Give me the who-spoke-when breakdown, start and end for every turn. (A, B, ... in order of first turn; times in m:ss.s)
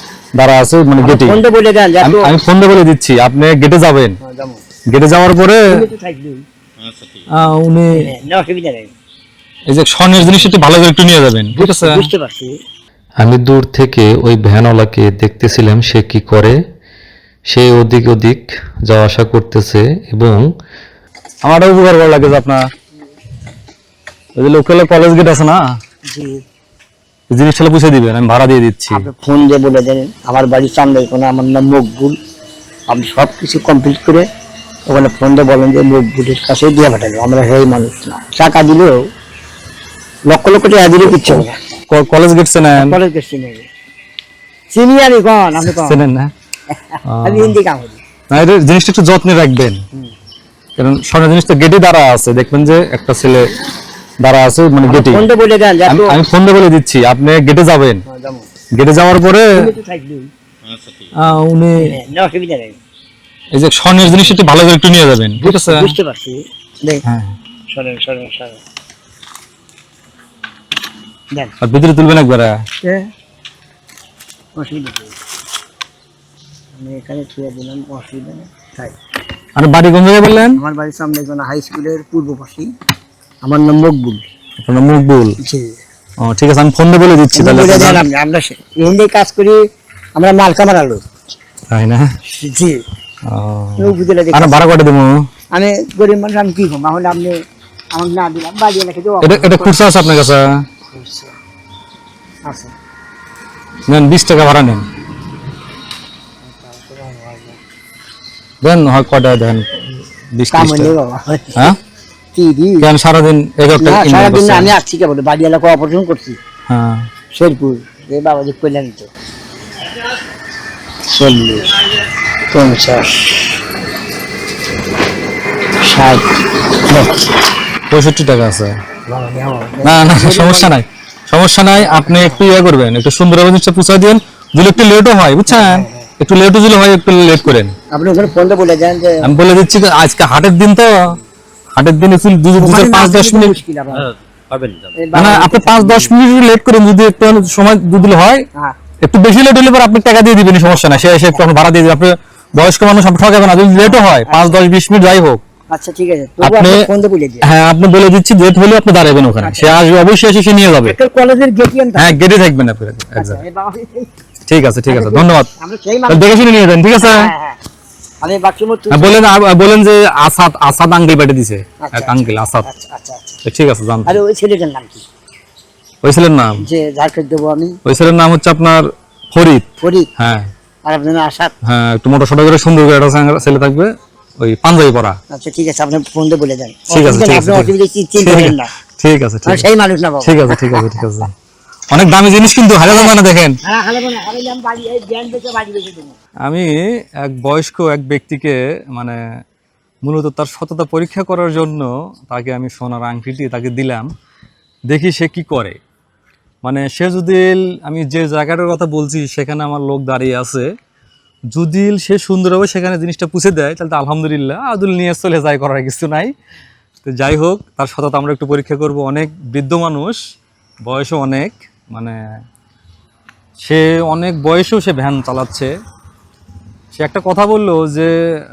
0:00.4-0:01.4 A
0:01.0-0:02.3 B
0:02.0-0:04.2 A
0:04.2-0:04.6 B
0:04.9-0:05.7 A
0:05.7-0:06.4 B
0:07.4-0:08.1 A
0:07.9-0:08.9 B
0:09.7-0:12.0 A
0:11.5-0:12.5 B
0:13.2-0:16.6 C
0:17.5-0:20.5 C
0:21.4-0:22.6 A
0:24.4-0:25.6 A
0:26.1-0:26.4 B
0:27.3-0:29.1 A
0:28.9-0:32.2 B
0:32.9-0:34.2 B
0:34.9-0:39.0 B
0:40.3-0:41.6 B
0:41.9-0:43.0 A
0:42.8-0:43.7 B
0:44.7-0:46.0 B
0:45.6-0:46.3 A
0:46.7-0:48.0 B
0:47.1-0:47.5 A
0:48.3-0:49.8 A
0:50.8-0:53.5 A
0:54.2-0:55.2 A
0:54.8-0:56.2 B
0:55.9-0:58.0 A
0:58.1-0:58.5 B
0:58.8-0:59.5 A
0:59.5-1:00.3 B
1:01.2-1:01.9 A
1:01.8-1:02.8 B
1:03.5-1:05.9 A
1:05.4-1:07.0 B
1:07.0-1:07.3 A
1:07.7-1:08.6 B
1:11.6-1:12.5 A
1:14.6-1:15.1 B
1:16.7-1:19.0 B
1:19.6-1:20.6 A
1:20.6-1:22.7 B
1:23.4-1:24.3 B
1:24.6-1:25.4 A
1:25.4-1:25.8 B
1:26.2-1:28.0 A
1:27.3-1:29.6 B
1:30.2-1:31.0 B
1:31.7-1:32.1 A
1:32.3-1:32.8 B
1:33.3-1:35.2 A
1:33.8-1:34.7 B
1:35.5-1:37.4 B
1:37.9-1:39.8 B
1:39.2-1:40.6 A
1:40.9-1:41.3 B
1:42.4-1:42.7 B
1:43.9-1:44.8 A
1:46.4-1:47.6 B
1:48.6-1:50.9 A
1:50.5-1:51.7 B
1:52.3-1:52.8 B
1:52.8-1:54.7 A
1:53.8-1:56.4 B
1:56.7-1:57.1 A
1:57.3-1:59.1 B
2:01.0-2:01.8 B
2:02.5-2:03.6 B
2:05.8-2:07.3 B
2:07.9-2:08.8 A
2:09.1-2:10.8 B
2:09.8-2:17.7 A
2:11.8-2:12.4 B
2:15.5-2:16.1 B
2:17.9-2:19.3 B
2:19.2-2:21.2 A
2:21.8-2:23.6 A
2:22.6-2:24.1 B
2:24.9-2:26.1 B
2:25.1-2:28.4 A
2:29.0-2:35.4 A
2:33.8-2:34.6 B
2:35.7-2:37.5 B
2:36.4-2:36.9 A
2:37.4-2:41.0 A
2:39.4-2:39.8 B
2:40.9-2:42.1 B
2:42.0-2:43.4 A
2:43.2-2:44.1 B
2:44.5-2:45.5 A
2:44.9-2:46.3 B
2:46.1-2:47.3 A
2:47.0-2:47.6 B
2:48.2-2:49.2 B
2:48.9-2:52.7 A
2:51.8-2:53.3 B
2:53.4-2:54.2 A
2:54.0-2:55.0 B
2:56.0-2:56.6 A
2:56.6-2:57.8 B
2:57.8-2:59.6 A
2:59.8-3:00.1 B
3:00.2-3:00.4 A
3:00.8-3:01.5 B
3:01.6-3:05.2 A
3:05.3-3:08.7 B
3:06.9-3:09.6 A
3:09.4-3:11.0 B
3:10.2-3:11.3 A
3:11.9-3:13.6 A
3:12.9-3:16.2 B
3:16.4-3:19.2 A
3:20.0-3:24.1 A
3:24.9-3:25.8 A
3:26.6-3:30.7 A
3:31.5-3:36.3 A
3:37.0-3:40.2 A
3:40.8-3:42.2 A
3:43.6-3:45.7 A
3:46.9-3:48.1 A